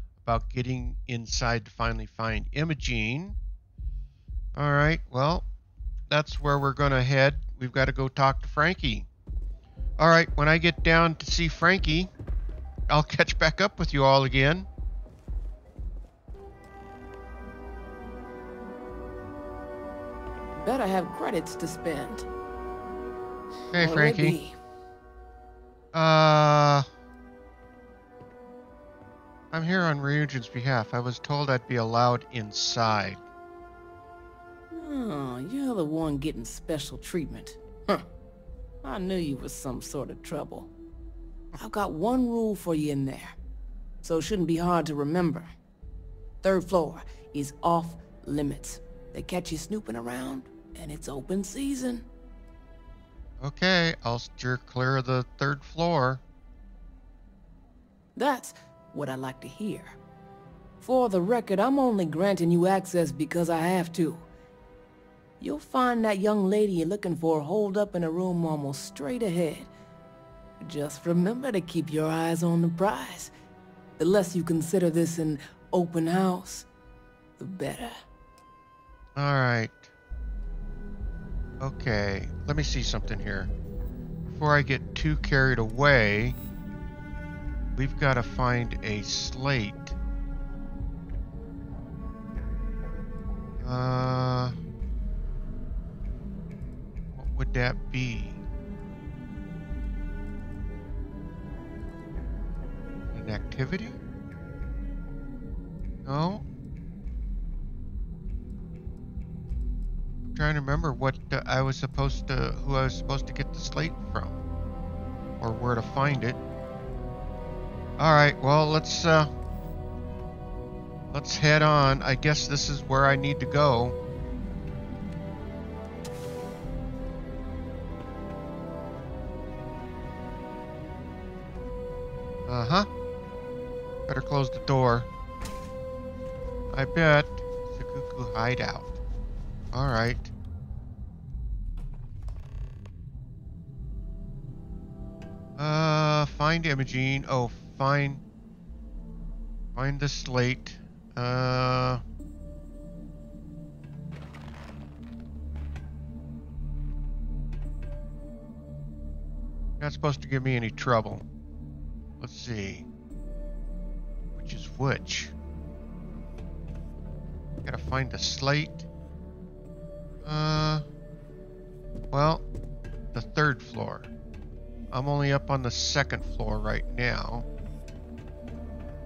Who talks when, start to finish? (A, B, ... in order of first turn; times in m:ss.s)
0:00.2-0:03.4 A
0:04.5-0:05.4 A
0:06.1-0:09.1 A
0:10.0-0:12.1 A
0:12.9-0:14.7 A
0:20.6-0:22.3 B
0:23.7-0:24.4 A
0:23.7-0:24.6 B
0:25.9-0:26.9 A
0:29.5-0:33.2 A
0:34.7-0:38.1 B
0:38.8-0:40.7 B
0:41.6-0:43.4 B
0:44.0-0:45.5 B
0:46.4-0:52.1 B
0:53.4-0:56.2 A
0:58.2-1:00.0 B
1:00.8-1:04.3 B
1:05.4-1:09.7 B
1:10.6-1:13.3 B
1:14.0-1:16.7 B
1:17.4-1:18.0 B
1:19.2-1:19.9 A
1:21.6-1:23.5 A
1:24.3-1:26.4 A
1:27.7-1:30.0 A
1:33.6-1:34.6 A
1:37.1-1:38.4 A
1:43.1-1:44.0 A
1:46.0-1:46.4 A
1:50.2-1:54.4 A
1:55.4-1:56.4 A
1:58.0-1:59.3 A
2:01.1-2:04.0 A
2:12.5-2:12.9 A
2:14.1-2:15.1 A
2:16.7-2:19.0 A
2:19.7-2:20.3 A
2:25.6-2:28.2 A
2:29.7-2:32.0 A
2:39.8-2:41.2 A
2:42.2-2:42.8 A
2:44.3-2:45.3 A
2:47.6-2:48.8 A
2:50.2-2:50.8 A
2:52.1-2:52.4 A
2:53.1-2:54.1 A
2:54.9-2:57.4 A